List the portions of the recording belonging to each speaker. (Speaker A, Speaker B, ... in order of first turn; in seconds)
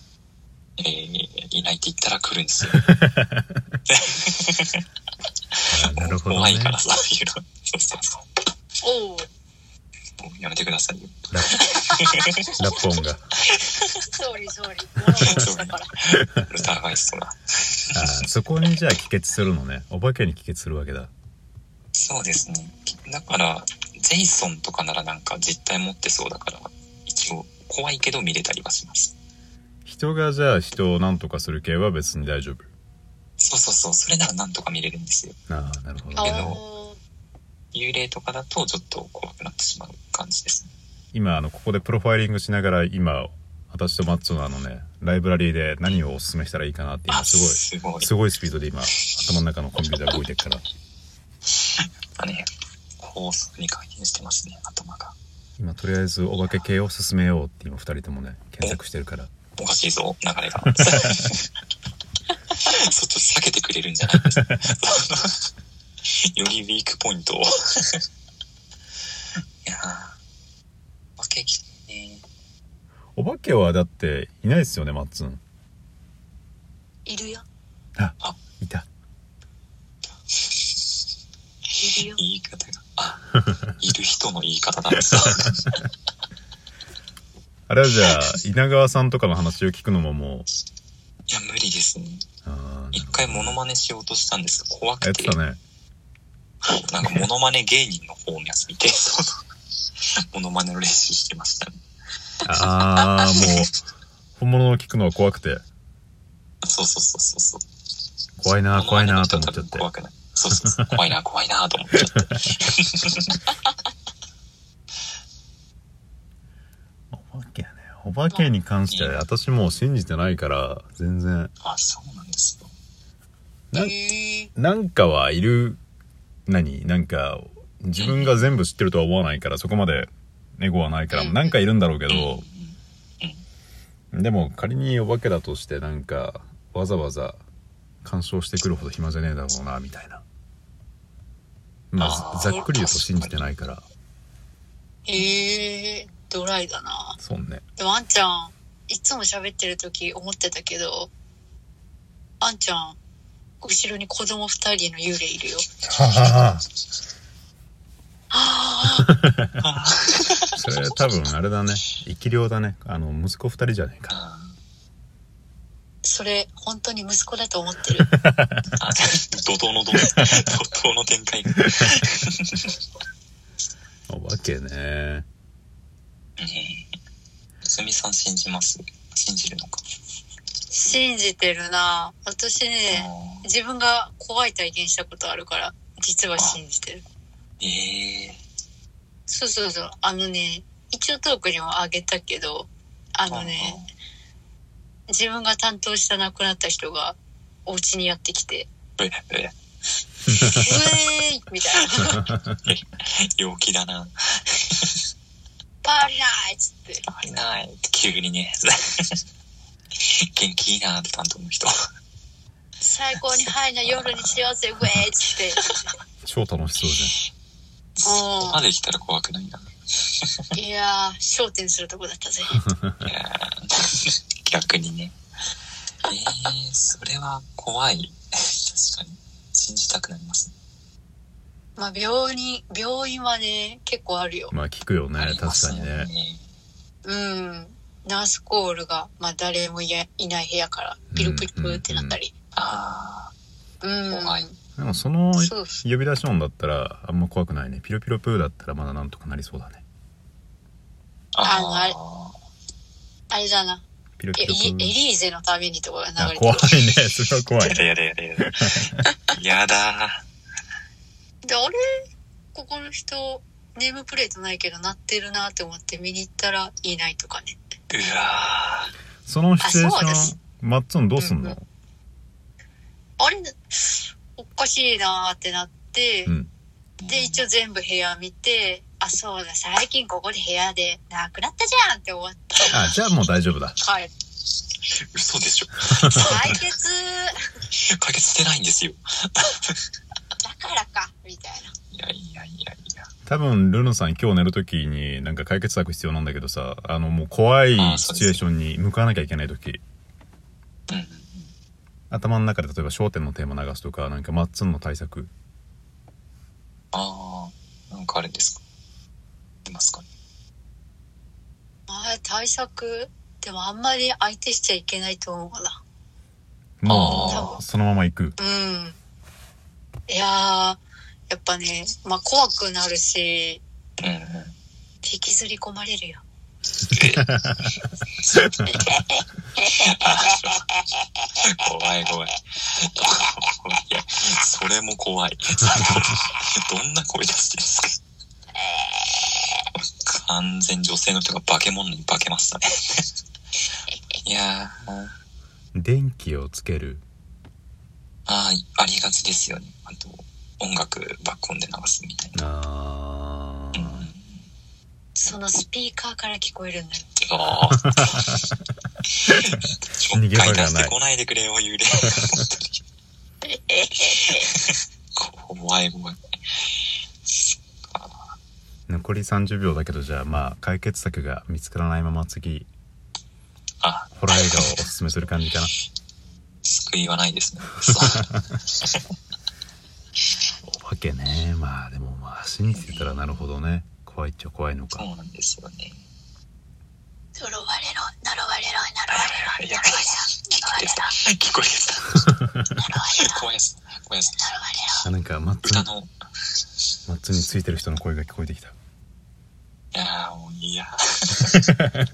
Speaker A: 0.8-2.8, 3.9-4.8, 5.9-8.2, 10.2-12.5, 13.5-14.1, 15.2-18.2, 21.9-29.1, 33.4-35.4, 36.2-36.6, 37.7-40.7, 47.1-48.1, 52.2-52.5, 53.0-55.1, 59.6-61.5, 62.5-65.4, 66.1-68.0, 69.6-70.2, 71.2-72.2, 80.3-80.8, 82.0-85.5, 91.3-92.2, 92.9-95.4, 96.8-99.2, 100.3-101.8, 103.4-103.6, 106.6-107.6, 108.7-113.4, 118.9-119.2, 121.6-122.7, 128.0-128.4, 132.1-133.4, 142.0-143.5, 159.6-160.7, 164.1-164.6, 168.8-172.6, 176.4-176.9, 177.6-179.8, 182.9-183.5, 187.6-188.4, 193.3-193.9, 199.0-199.5, 201.8-204.9, 207.1-209.2, 210.0-211.7, 213.8-215.0, 218.0-219.7, 223.0-225.1, 226.1-230.5, 235.2-236.4, 242.6-243.3, 244.1-244.5, 251.3-252.3, 257.6-260.2, 267.9-268.9, 277.0-277.4, 285.1-286.6, 287.9-289.8, 291.9-293.1, 297.8-298.4, 300.9-301.5, 306.9-308.6, 309.7-310.0, 316.8-317.5, 324.0-324.5, 326.9-327.3, 328.2-328.9, 329.6-330.6, 331.4-338.0, 339.8-343.1, 344.2-345.1, 348.3-352.4, 353.7-354.4, 357.2-358.2, 359.2-362.8, 364.2-366.6, 367.2-368.3, 373.8-374.7, 376.6-378.2, 382.7-383.2, 384.9-386.0, 389.1-392.3, 392.9-394.5, 395.6-396.1, 399.9-401.6
Speaker B: 2.7-3.5, 5.7-6.8, 11.3-11.6, 12.6-13.2, 17.9-21.1, 29.9-32.7, 35.5-36.6, 41.1-50.6, 55.6-59.3, 60.6-61.1, 73.2-75.4, 78.0-78.9, 87.7-90.5, 92.4-93.6, 95.0-95.6, 102.4-103.8, 104.4-105.6, 108.4-109.9, 117.1-121.5, 124.5-125.8, 126.5-132.4, 134.1-137.4, 138.0-140.2, 141.9-143.9, 147.2-147.6, 155.8-156.6, 159.0-159.5, 160.6-164.2, 168.2-168.7, 174.1-175.2, 216.2-217.1, 234.5-236.1, 241.1-242.2, 244.8-249.8, 254.2-255.0, 256.2-257.8, 269.2-271.6, 282.7-283.8, 293.2-299.8, 302.1-305.3, 316.8-318.4, 327.4-327.7, 345.7-347.0, 352.3-354.1, 360.1-360.9, 368.9-372.7, 374.1-375.7, 380.6-385.0, 395.0-395.9, 397.1-398.8, 401.7-402.0
Speaker C: 8.8-9.2, 14.1-15.9, 36.2-37.0, 77.0-77.4, 81.8-82.2, 123.7-124.5, 131.1-131.5, 145.1-147.2, 147.8-151.1, 152.4-153.0, 153.6-155.6, 158.3-159.1, 166.0-168.1, 180.7-187.0, 189.3-193.8, 195.1-198.7, 200.4-202.3, 205.8-207.0, 212.8-215.7, 218.0-218.6, 220.5-222.7, 231.8-234.5, 237.0-242.3, 243.8-244.6, 245.3-245.8, 251.4-251.9, 253.3-253.8, 254.3-256.8, 261.4-261.8, 262.5-267.6, 269.6-270.3, 271.2-271.6, 273.2-276.3, 277.1-282.7, 283.8-284.1, 286.1-287.4, 290.4-291.7, 311.9-315.8, 317.1-317.6, 318.4-319.0, 320.1-323.6, 325.0-326.2, 355.1-357.1, 363.4-364.5, 387.4-391.1, 392.8-393.4, 394.4-395.1